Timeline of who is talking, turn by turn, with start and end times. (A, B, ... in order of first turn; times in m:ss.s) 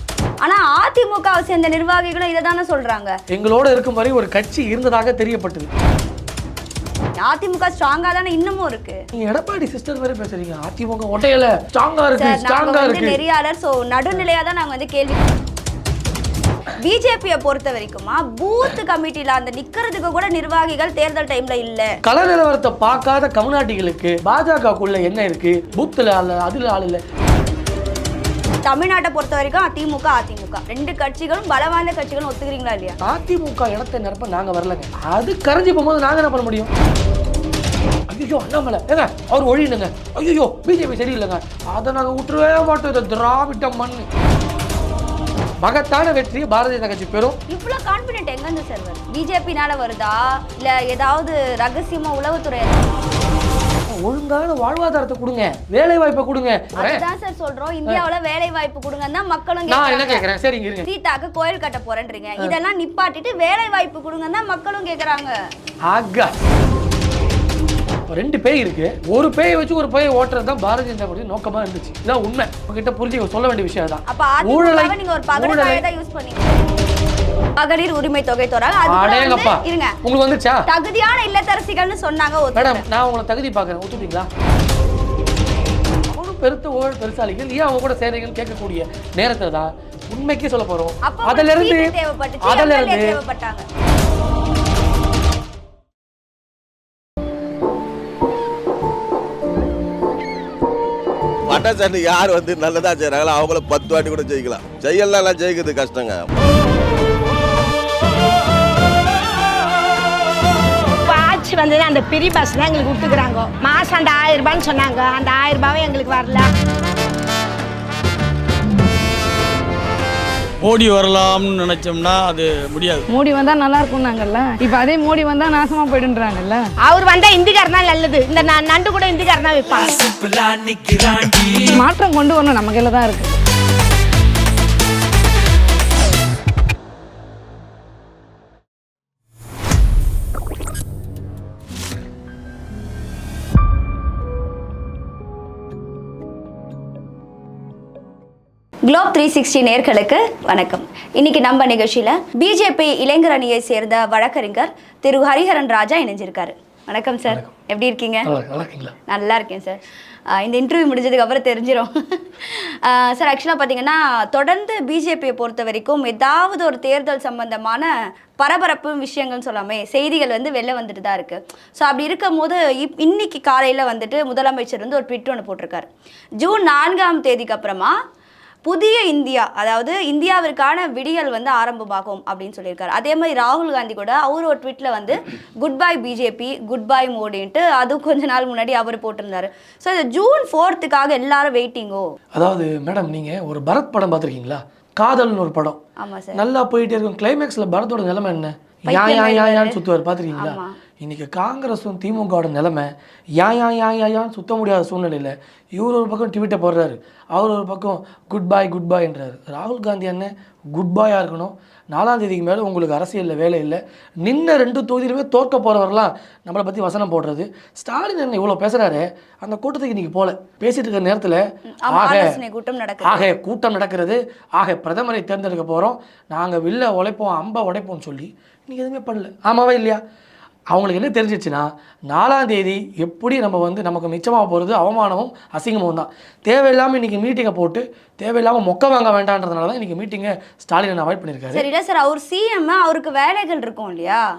0:00.4-0:03.2 A
0:03.3-0:05.7 B
0:07.2-0:09.0 A
0:09.2-0:13.2 B
0:12.2-0:15.4 A
0:16.8-0:21.9 A
0:22.0-0:27.0 B
0:28.6-0:33.0 A
0:33.0-0:36.7 B
0:38.1-0:44.1 B
0:45.6-0:47.4 B
0:47.5-0:53.0 A
0:53.9-0:57.0 B
0:56.8-1:00.3 A
0:59.7-1:00.9 B
1:00.8-1:05.3 A
1:05.9-1:06.3 B
1:08.1-1:15.8 B
1:14.1-1:16.7 A
1:17.6-1:20.0 A
1:18.9-1:20.7 B
1:20.7-1:22.8 A
1:22.6-1:24.3 B
1:26.1-1:33.2 B
1:31.0-1:33.7 A
1:41.5-1:46.3 C
1:51.0-1:56.5 D
2:00.6-2:03.1 E
2:03.1-2:06.7 F
2:06.8-2:10.1 D
2:10.2-2:13.4 F
2:28.9-2:38.3 A
2:38.2-2:38.9 B
2:39.1-2:58.0 A
2:58.7-3:12.1 A
3:12.3-3:15.8 B
3:16.0-3:16.4 A
3:16.4-3:42.4 B
3:18.9-3:19.8 A
3:20.4-3:20.7 A
3:41.7-3:43.3 A
3:43.0-3:50.0 B
3:50.7-4:01.6 B
4:01.5-4:04.2 A